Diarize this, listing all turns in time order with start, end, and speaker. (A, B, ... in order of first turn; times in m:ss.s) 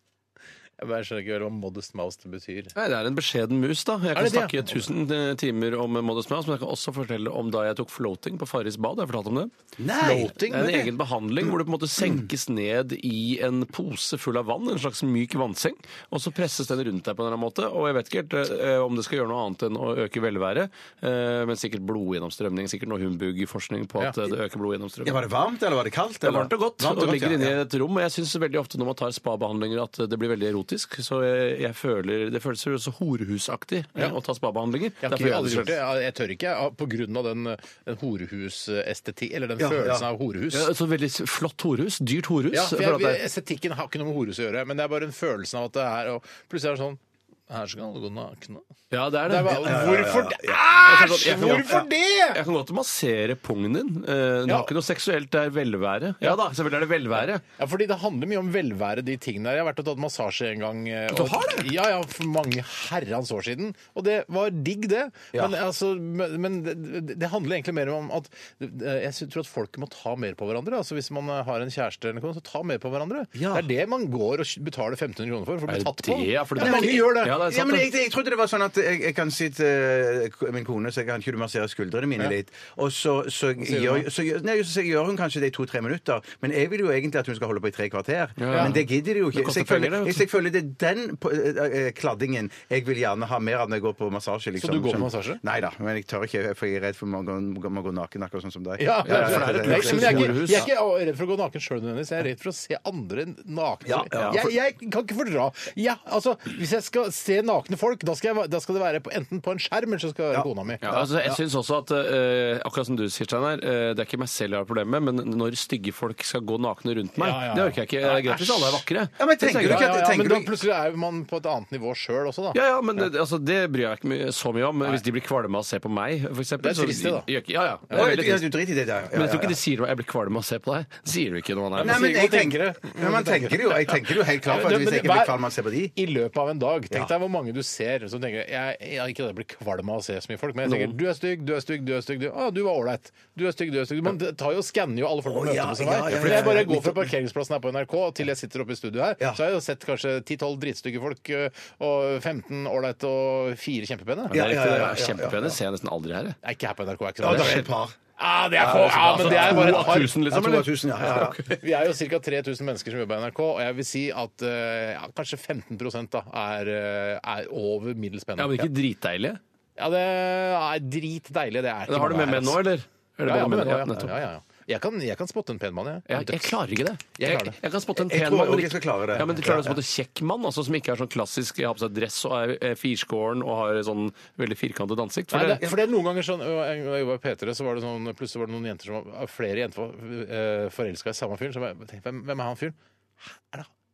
0:00.8-0:02.7 A
0:02.8-0:09.5 B
0:04.1-0:04.9 A
0:09.8-0:10.3 C
0:10.0-0:10.9 A
0:10.3-0:25.2 B
0:25.0-0:27.6 C
0:26.2-0:35.8 B
0:35.0-0:40.7 A
0:39.6-0:40.1 C
0:40.5-0:43.2 B
0:42.5-0:48.6 A
0:48.9-0:49.8 B
0:49.2-0:52.4 A
0:49.5-0:50.6 C
0:50.8-0:57.4 B
0:57.2-1:17.4 A
1:01.1-1:01.7 B
1:13.3-1:13.6 C
1:15.7-1:17.9 B
1:16.6-1:40.6 C
1:23.6-1:24.0 A
1:28.4-1:30.2 B
1:28.5-1:28.8 A
1:34.6-1:35.4 A
1:38.8-1:50.9 A
1:39.0-1:40.7 B
1:43.8-1:44.5 C
1:44.2-1:44.4 B
1:50.3-1:51.4 C
1:50.8-1:59.9 B
1:57.2-1:58.8 A
1:59.2-2:00.5 C
1:59.6-2:02.6 A
2:02.5-2:08.5 B
2:06.6-2:07.3 A
2:07.9-2:09.6 C
2:09.1-2:12.1 B
2:11.8-2:15.4 A
2:11.8-2:15.9 C
2:15.9-2:34.4 A
2:20.6-2:20.9 B
2:25.2-2:27.1 C
2:26.1-2:26.6 B
2:34.3-2:36.4 B
2:34.3-2:35.6 C
2:36.4-2:40.2 A
2:37.2-2:38.0 C
2:37.2-2:37.6 B
2:38.6-2:41.4 C
2:38.7-2:41.6 B
2:41.4-2:48.7 A
2:48.4-2:49.4 B
2:49.8-2:52.6 A
2:51.9-2:54.1 B
2:53.2-2:56.5 A
2:56.1-3:05.6 B
2:57.2-2:57.6 A
2:57.9-2:59.8 C
3:05.3-3:12.8 A
3:13.4-3:13.7 A